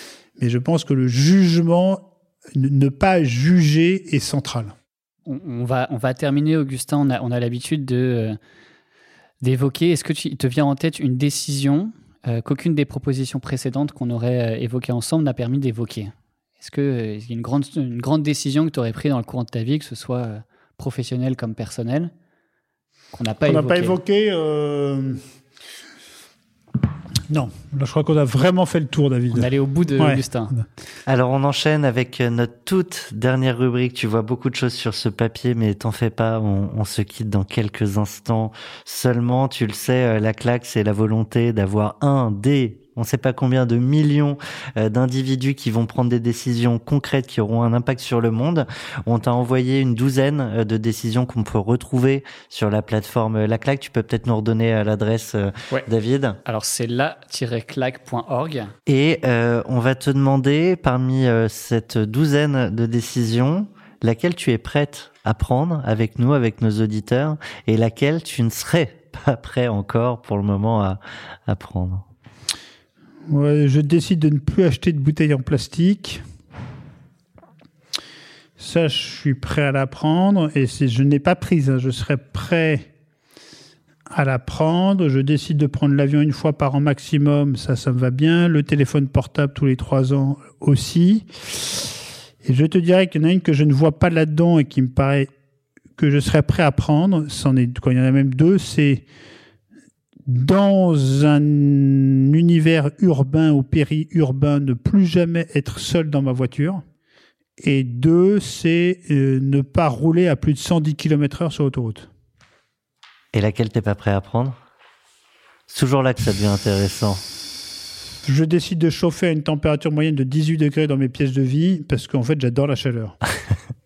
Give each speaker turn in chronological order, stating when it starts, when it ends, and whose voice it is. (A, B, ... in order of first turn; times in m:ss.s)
0:00.4-0:04.7 A
0:05.2-0:08.4 B
0:09.4-0:22.1 B
0:23.1-0:24.0 B
0:23.4-0:25.2 A
0:27.3-0:30.6 A
0:29.3-0:30.5 B
0:31.1-0:56.4 C
0:56.4-0:58.7 B
0:58.9-1:12.0 C
1:13.3-1:16.2 A
1:18.6-1:22.9 A
1:24.1-1:31.3 A
1:32.4-1:35.3 A
1:36.0-1:39.0 A
1:40.2-1:46.8 A
1:47.6-1:52.1 A
1:53.3-1:54.5 C
1:55.7-1:57.2 C
1:58.2-2:03.2 A